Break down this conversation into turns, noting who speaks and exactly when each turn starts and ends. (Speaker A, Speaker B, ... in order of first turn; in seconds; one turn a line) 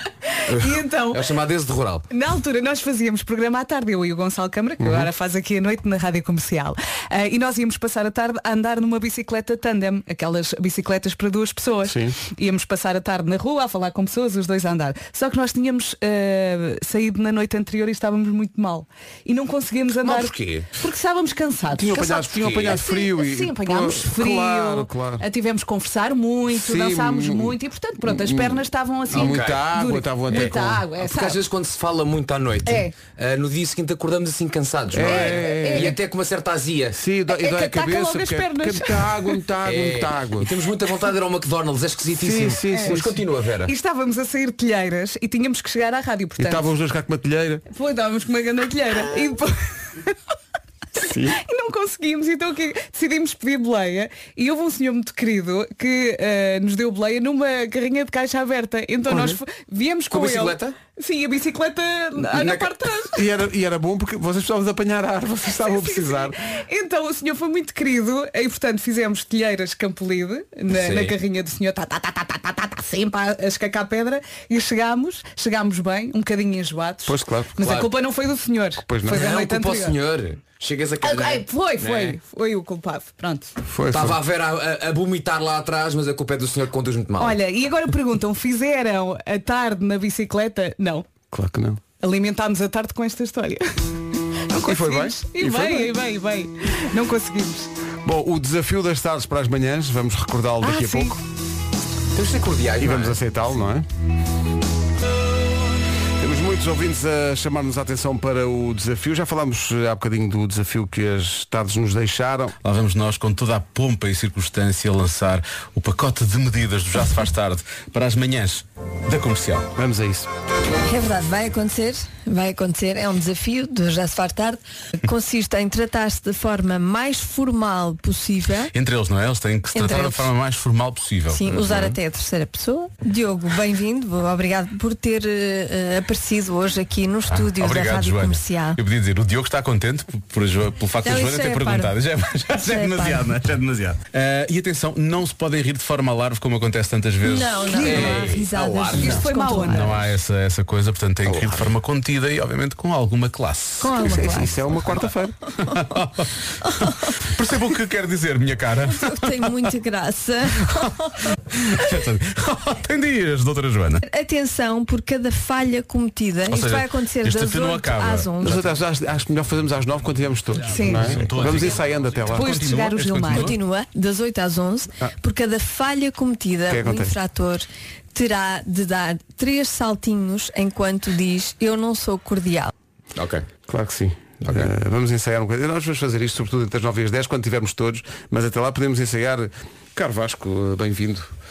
Speaker A: 0.3-1.2
Speaker B: 0.5-2.0
Speaker A: 2.1-31.4
Speaker C: 4.8-5.1
Speaker C: 11.8-12.2
Speaker B: 20.0-20.7
Speaker C: 21.7-25.2
Speaker B: 22.4-22.8
Speaker C: 26.5-30.8
Speaker B: 29.1-29.7
Speaker B: 30.3-37.0
Speaker A: 32.6-32.9
Speaker C: 34.9-36.0
Speaker A: 35.0-35.9
Speaker C: 36.9-40.5
Speaker A: 37.3-39.3
Speaker B: 39.6-43.7
Speaker C: 42.1-43.2
Speaker A: 42.7-43.0
Speaker A: 43.6-46.7
Speaker C: 46.4-47.6
Speaker A: 47.7-50.1
Speaker C: 51.0-51.4
Speaker A: 51.3-63.2
Speaker B: 60.1-60.8
Speaker B: 62.3-62.7
Speaker C: 63.1-66.3
Speaker A: 65.6-80.0
Speaker B: 70.7-71.2
Speaker C: 77.0-77.6
Speaker B: 77.6-77.9
Speaker C: 78.8-79.3
Speaker B: 79.0-82.2
Speaker A: 81.0-83.5
Speaker C: 83.7-84.2
Speaker B: 83.9-87.4
Speaker A: 87.2-91.0
Speaker C: 91.3-91.8
Speaker A: 92.0-93.7
Speaker A: 94.5-97.7
Speaker C: 94.5-95.9
Speaker C: 98.0-101.2
Speaker A: 100.6-101.1
Speaker B: 102.1-103.2
Speaker C: 102.8-103.9
Speaker C: 106.2-112.5
Speaker D: 112.6-119.7
Speaker C: 119.7-120.3
Speaker E: 120.8-128.7
Speaker D: 128.7-132.0
Speaker E: 129.7-130.3
Speaker E: 131.3-138.8
Speaker D: 137.3-148.2
Speaker E: 141.0-142.0
Speaker E: 142.5-143.3
Speaker E: 147.2-150.1
Speaker A: 147.7-148.3
Speaker B: 147.9-149.1
Speaker A: 148.9-150.1
Speaker D: 149.0-155.1
Speaker B: 151.3-151.6
Speaker E: 153.8-154.6
Speaker C: 154.0-155.3
Speaker D: 155.7-156.2
Speaker D: 157.2-159.3
Speaker E: 158.8-161.1
Speaker D: 161.6-164.0
Speaker E: 164.1-168.7
Speaker D: 166.5-168.3
Speaker C: 168.4-172.4
Speaker A: 170.7-171.2
Speaker D: 170.9-173.6
Speaker A: 172.3-173.5
Speaker E: 173.3-182.7
Speaker C: 176.7-177.2
Speaker B: 183.1-183.5
Speaker C: 183.7-191.3
Speaker B: 184.4-184.7